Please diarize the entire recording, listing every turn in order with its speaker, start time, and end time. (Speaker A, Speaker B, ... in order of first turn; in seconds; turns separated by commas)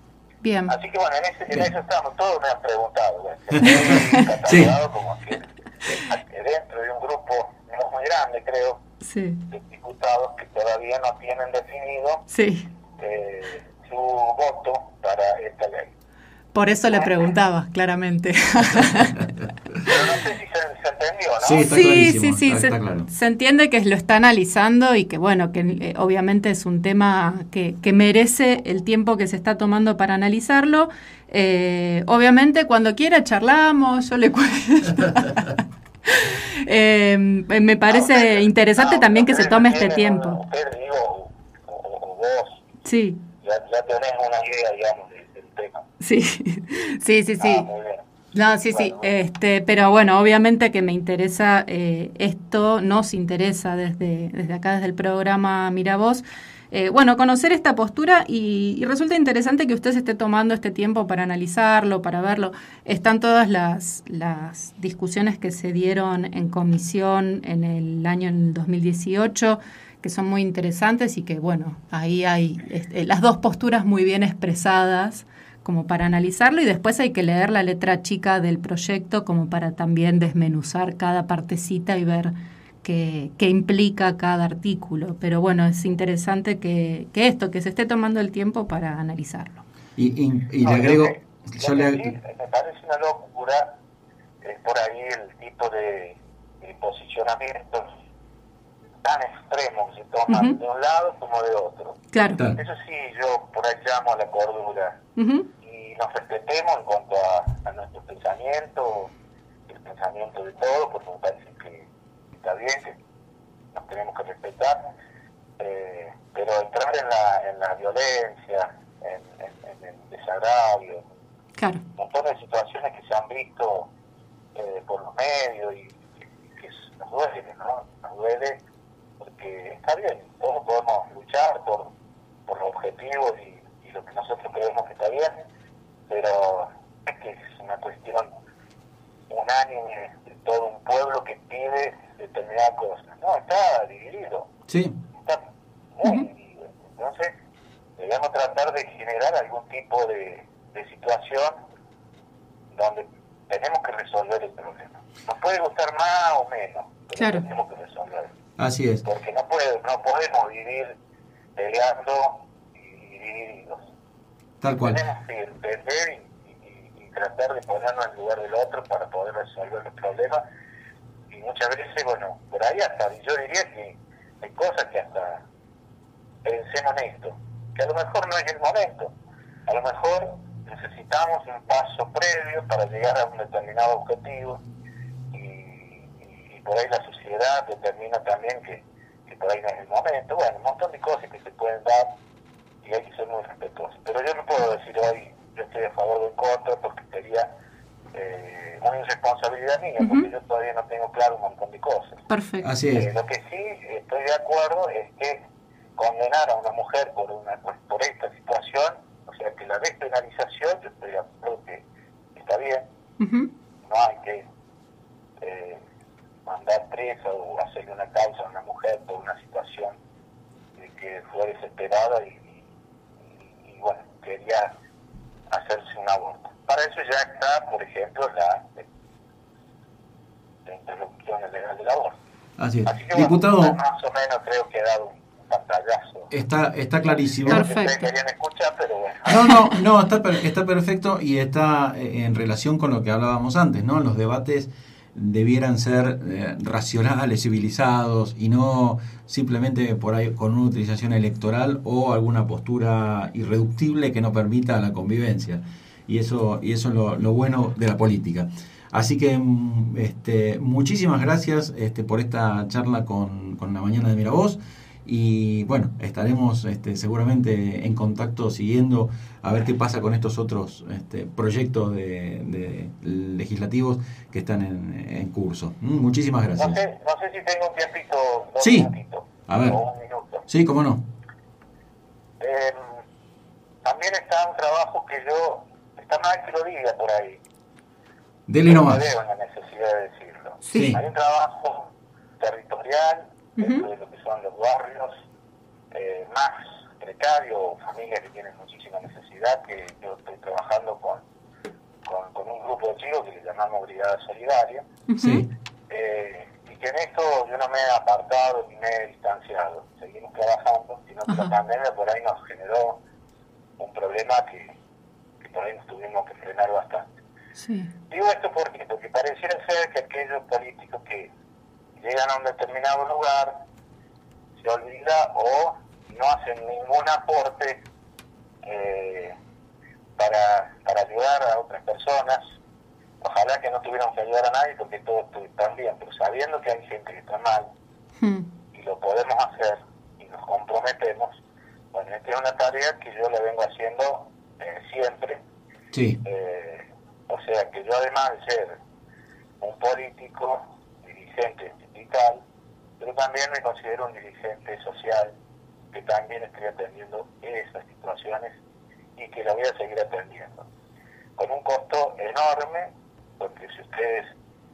Speaker A: 0.4-0.7, Speaker B: 0.7-8.8, Speaker C: 3.5-4.7, Speaker A: 9.0-9.4, Speaker B: 9.5-12.2, Speaker A: 12.3-12.7, Speaker B: 13.0-15.9, Speaker A: 16.5-19.2, Speaker B: 19.8-21.7, Speaker C: 21.4-23.1, Speaker A: 21.6-40.4, Speaker B: 37.9-42.6, Speaker A: 42.8-43.2, Speaker B: 43.4-45.9, Speaker A: 46.0-47.7, Speaker B: 47.4-48.0, Speaker A: 48.3-82.3, Speaker B: 48.7-49.1, Speaker A: 82.8-89.6, Speaker C: 90.0-92.1, Speaker B: 90.6-93.8, Speaker B: 94.4-97.9, Speaker B: 99.0-102.0, Speaker A: 100.3-100.5, Speaker A: 102.1-102.4, Speaker B: 102.5-105.0, Speaker A: 105.2-105.5, Speaker B: 105.6-109.1, Speaker B: 109.7-113.0, Speaker B: 113.7-114.9, Speaker B: 115.6-121.0, Speaker A: 121.6-121.8, Speaker B: 122.0-123.9, Speaker B: 124.5-126.0, Speaker B: 126.5-128.6, Speaker B: 129.2-131.9, Speaker B: 132.5-135.3, Speaker B: 136.1-138.3, Speaker B: 139.3-144.5, Speaker C: 144.7-144.9, Speaker B: 146.0-147.3, Speaker B: 148.0-151.6, Speaker B: 152.7-158.3, Speaker A: 157.2-157.4, Speaker C: 158.6-159.0, Speaker B: 159.0-161.0, Speaker B: 161.6-163.8, Speaker C: 164.6-165.0, Speaker B: 164.8-170.4, Speaker B: 171.3-175.4, Speaker B: 176.4-179.1, Speaker B: 179.7-184.6, Speaker B: 185.3-192.1, Speaker B: 192.8-197.5, Speaker B: 198.1-202.2, Speaker A: 200.0-200.3, Speaker A: 202.3-202.6, Speaker C: 202.6-203.1, Speaker B: 202.9-205.4, Speaker B: 206.0-211.8, Speaker B: 212.3-212.9, Speaker A: 213.2-213.5, Speaker B: 213.8-214.5, Speaker B: 215.4-215.8, Speaker B: 216.4-219.9, Speaker B: 220.8-222.6, Speaker B: 223.4-224.7, Speaker B: 225.5-228.9, Speaker B: 230.7-232.2, Speaker C: 232.6-233.8, Speaker B: 232.8-236.3, Speaker C: 236.3-237.6, Speaker B: 237.4-239.6, Speaker A: 237.5-238.0, Speaker C: 239.3-276.8, Speaker B: 276.6-280.4, Speaker C: 278.6-278.9, Speaker C: 279.5-279.8, Speaker C: 280.5-281.0, Speaker B: 282.4-283.0, Speaker B: 283.8-287.4, Speaker C: 288.5-289.0, Speaker B: 288.6-295.2, Speaker A: 290.7-291.0, Speaker C: 290.7-291.0, Speaker A: 293.6-293.9, Speaker B: 295.9-301.2, Speaker B: 302.1-304.9, Speaker A: 305.1-305.4, Speaker C: 305.2-305.5, Speaker B: 305.9-313.0, Speaker B: 313.8-314.7, Speaker B: 315.4-317.1, Speaker A: 317.6-317.9, Speaker B: 318.1-321.3, Speaker B: 322.0-323.6, Speaker B: 324.6-327.8, Speaker B: 328.6-329.4, Speaker B: 330.2-332.6, Speaker B: 333.2-337.7, Speaker A: 338.2-338.5, Speaker B: 338.7-341.4, Speaker B: 341.9-345.4, Speaker C: 345.9-346.2, Speaker B: 346.2-348.8, Speaker B: 349.6-352.4, Speaker B: 353.0-355.3, Speaker B: 355.9-358.6, Speaker B: 359.1-360.7, Speaker B: 361.4-364.3